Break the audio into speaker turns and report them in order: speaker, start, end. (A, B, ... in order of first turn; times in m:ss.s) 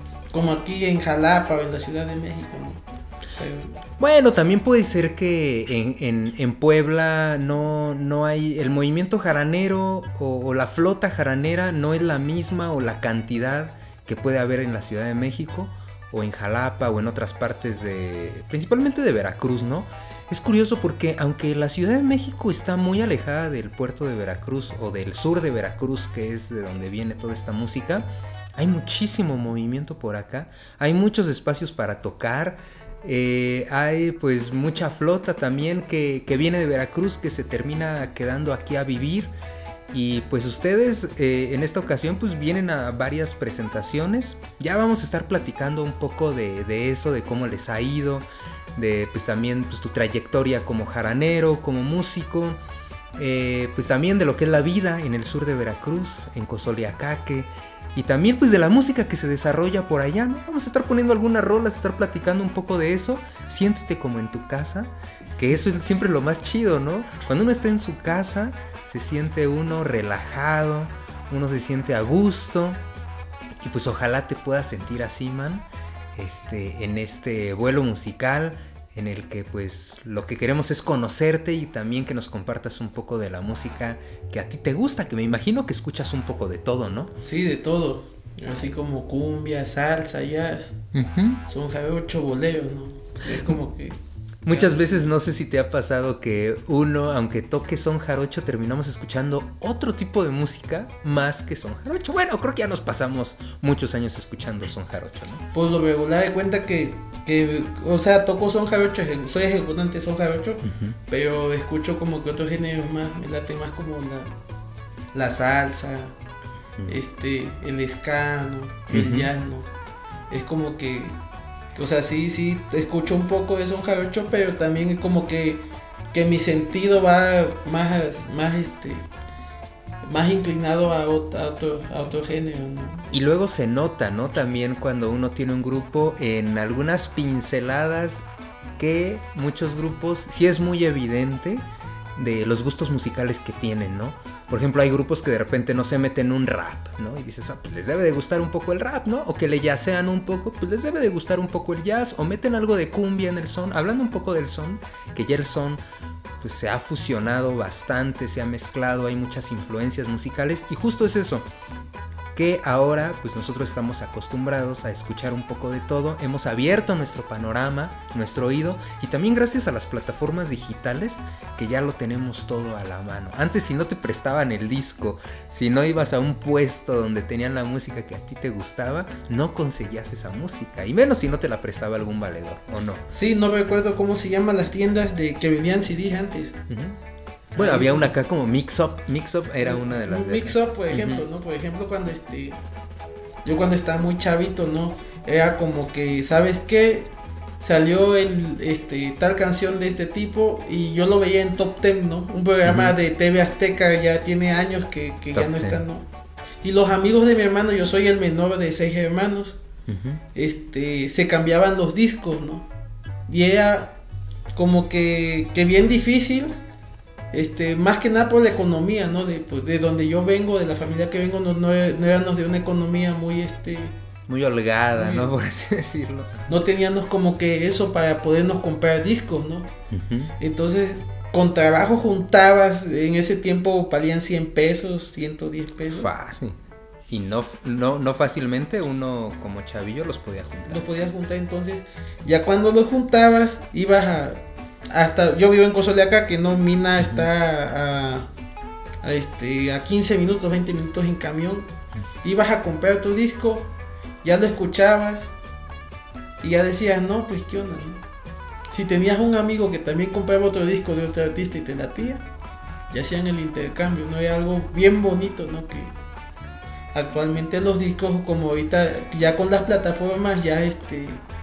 0:00.3-0:02.8 A
0:03.4-0:03.8 A
0:04.0-0:39.3 B
0:39.9-0:52.6 B
0:53.2-1:12.8 B
1:13.6-1:27.1 B
1:27.2-1:30.8 A
1:30.9-1:31.4 B
1:31.4-1:34.0 A
1:33.3-1:33.6 B
1:34.4-1:45.4 B
1:34.5-1:35.2 A
1:45.5-1:54.3 A
1:50.6-1:51.0 B
1:55.1-1:56.2 A
1:56.9-1:59.7 A
1:58.9-1:59.3 B
2:00.3-2:01.2 A
2:01.8-2:09.0 A
2:10.1-2:13.1 A
2:13.1-2:18.2 B
2:18.8-2:35.8 B
2:36.4-2:41.5 B
2:42.3-3:03.1 B
3:03.1-3:06.6 A
3:06.7-3:07.0 B
3:07.6-3:08.1 A
3:07.6-3:11.3 B
3:09.6-3:12.6 A
3:13.4-3:26.0 A
3:22.6-3:23.0 B
3:25.3-3:25.8 B
3:26.6-3:29.6 A
3:29.9-3:30.2 B
3:30.4-3:32.7 A
3:33.3-3:33.9 A
3:34.6-3:36.6 A
3:37.3-3:44.0 A
3:44.3-3:46.5 B
3:45.0-3:45.3 A
3:46.5-3:49.7 A
3:49.9-3:50.3 B
3:50.4-3:56.1 A
3:55.9-4:01.0 B
4:00.7-4:08.3 A
4:07.0-4:07.3 B
4:09.0-4:11.7 A
4:12.2-4:13.7 A
4:14.2-4:15.3 A
4:16.4-4:18.0 A
4:18.7-4:22.2 A
4:22.9-4:26.0 A
4:26.9-4:31.2 A